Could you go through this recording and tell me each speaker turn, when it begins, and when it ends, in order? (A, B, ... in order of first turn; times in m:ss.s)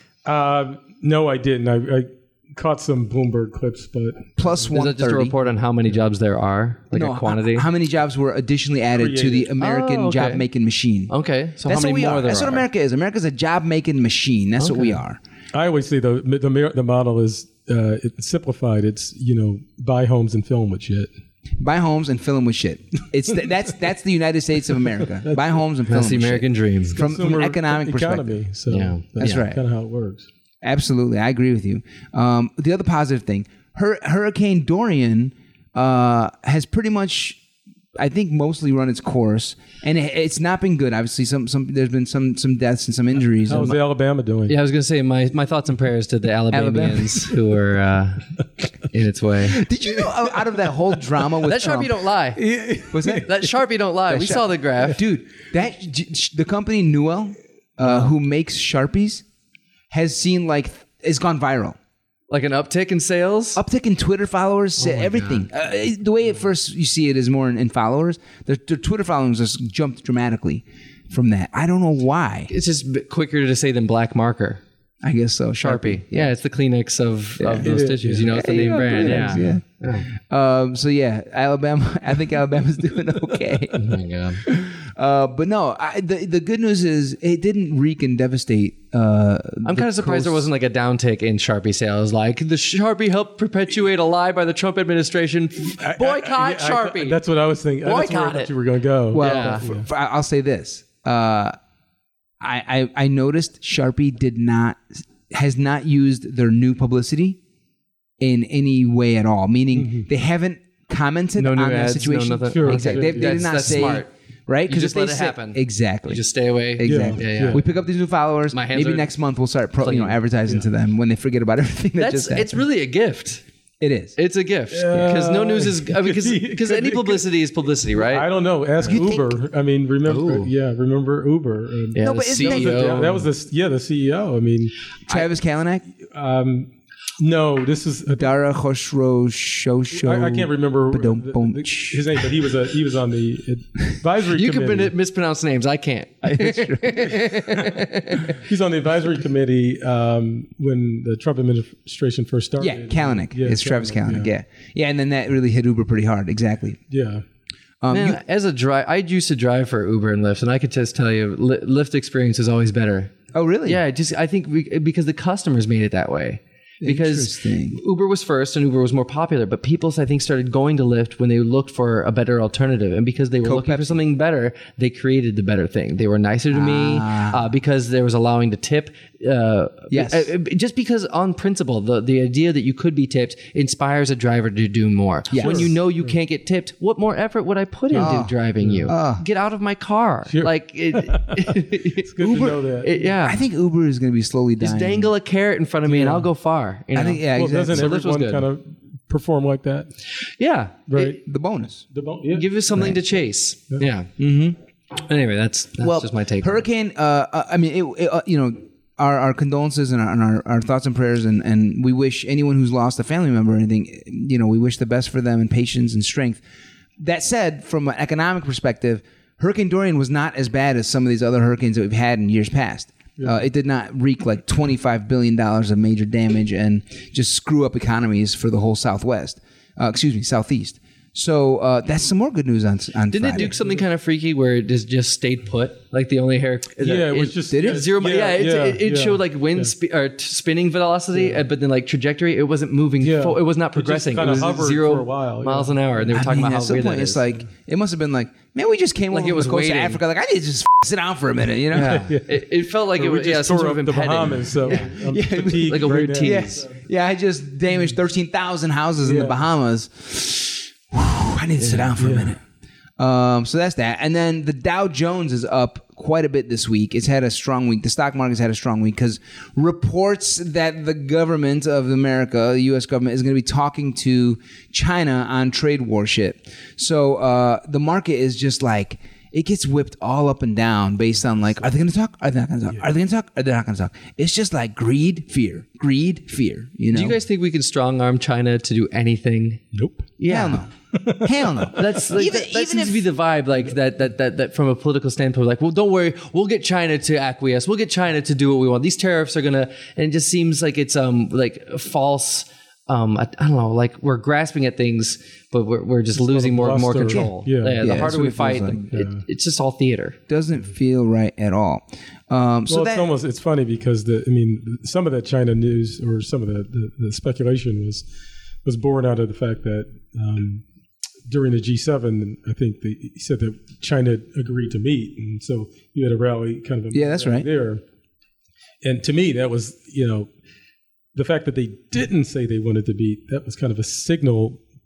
0:00.2-0:04.7 A
0:04.4-0:05.4 B
0:04.7-0:07.7 C
0:06.9-0:11.1 B
0:09.0-0:09.5 A
0:09.6-0:10.4 C
0:11.1-0:12.6 C
0:11.6-0:15.2 B
0:14.6-0:15.0 C
0:15.5-0:21.1 A
0:21.6-0:28.4 B
0:25.2-0:25.6 A
0:25.9-0:27.0 C
0:26.9-0:30.3 A
0:28.7-0:29.4 C
0:29.2-0:29.6 B
0:30.6-0:37.4 B
0:38.0-0:43.8 B
0:43.5-0:44.6 A
0:44.5-0:48.3 C
0:46.5-0:47.3 B
0:48.9-0:49.6 C
0:49.5-0:52.0 B
0:51.4-0:52.4 C
0:52.4-0:53.5 A
0:52.9-0:53.3 B
0:53.0-0:55.0 C
0:54.1-0:59.2 B
0:59.9-1:01.8 B
1:02.3-1:03.6 C
1:03.6-1:12.5 B
1:04.8-1:05.5 C
1:12.5-1:14.6 C
1:15.0-1:16.3 B
1:15.6-1:20.1 C
1:17.4-1:17.7 B
1:17.6-1:19.6 A
1:18.3-1:23.9 B
1:23.7-1:24.5 C
1:24.4-1:30.5 B
1:29.6-1:37.2 C
1:35.8-1:39.9 A
1:37.8-1:38.5 C
1:39.1-1:41.6 B
1:39.2-1:39.6 C
1:42.4-1:47.4 B
1:48.2-1:56.2 B
1:49.8-1:50.1 A
1:51.4-1:54.1 C
1:52.5-1:53.8 A
1:54.7-1:57.6 C
1:56.8-2:02.6 B
1:56.8-1:57.6 A
1:58.5-1:59.1 C
1:59.8-2:00.2 C
2:02.0-2:03.4 C
2:03.8-2:04.2 B
2:04.2-2:08.3 C
2:04.7-2:07.3 A
2:07.9-2:14.8 A
2:08.8-2:09.4 B
2:10.1-2:10.5 C
2:11.9-2:13.3 C
2:12.0-2:13.1 B
2:15.1-2:15.8 B
2:16.0-2:18.3 A
2:18.2-2:22.3 B
2:19.9-2:24.9 A
2:24.3-2:28.4 C
2:26.2-2:27.4 B
2:28.3-2:34.3 A
2:32.6-2:36.8 B
2:36.9-2:37.2 A
2:37.8-2:38.2 B
2:37.9-2:43.1 C
2:43.3-2:43.8 B
2:43.7-3:13.4 C
2:46.8-2:47.8 B
2:53.4-2:54.0 B
2:56.5-2:57.4 B
2:59.9-3:00.3 B
3:05.3-3:05.7 B
3:05.4-3:06.1 A
3:07.9-3:08.9 A
3:07.9-3:08.4 B
3:08.9-3:09.2 B
3:10.3-3:13.1 A
3:12.2-3:12.6 B
3:13.2-3:15.1 B
3:14.6-3:18.5 C
3:15.9-3:16.3 A
3:16.9-3:17.9 B
3:17.3-3:19.9 A
3:20.4-3:21.2 C
3:20.9-3:21.2 A
3:21.2-3:21.8 B
3:21.9-3:22.9 A
3:22.3-3:24.1 C
3:24.2-3:24.6 B
3:25.0-3:26.6 C
3:25.8-3:36.4 B
3:37.0-3:53.5 B
3:43.2-3:43.4 A
3:53.1-4:07.3 C
3:56.8-3:59.7 A
3:57.5-3:57.9 B
4:01.1-4:01.4 A
4:03.0-4:06.2 A
4:06.1-4:12.1 B
4:09.1-4:10.0 C
4:11.7-4:16.6 C
4:11.8-4:16.7 A
4:14.8-4:22.4 B
4:19.0-4:19.4 A
4:21.6-4:22.0 C
4:22.0-4:22.3 A
4:23.0-4:47.2 B
4:46.9-4:49.6 C
4:49.7-4:50.1 A
4:50.2-4:50.6 C
4:50.3-4:50.7 B
4:50.9-4:51.9 A
4:51.2-4:53.1 B
4:51.7-5:10.2 C
5:06.2-5:08.2 A
5:07.8-5:08.8 B
5:08.9-5:09.2 A
5:10.3-5:13.1 B
5:12.7-5:18.0 A
5:18.6-5:20.6 A
5:21.3-5:27.8 A
5:26.9-5:27.5 B
5:28.8-5:30.3 A
5:31.2-5:34.6 A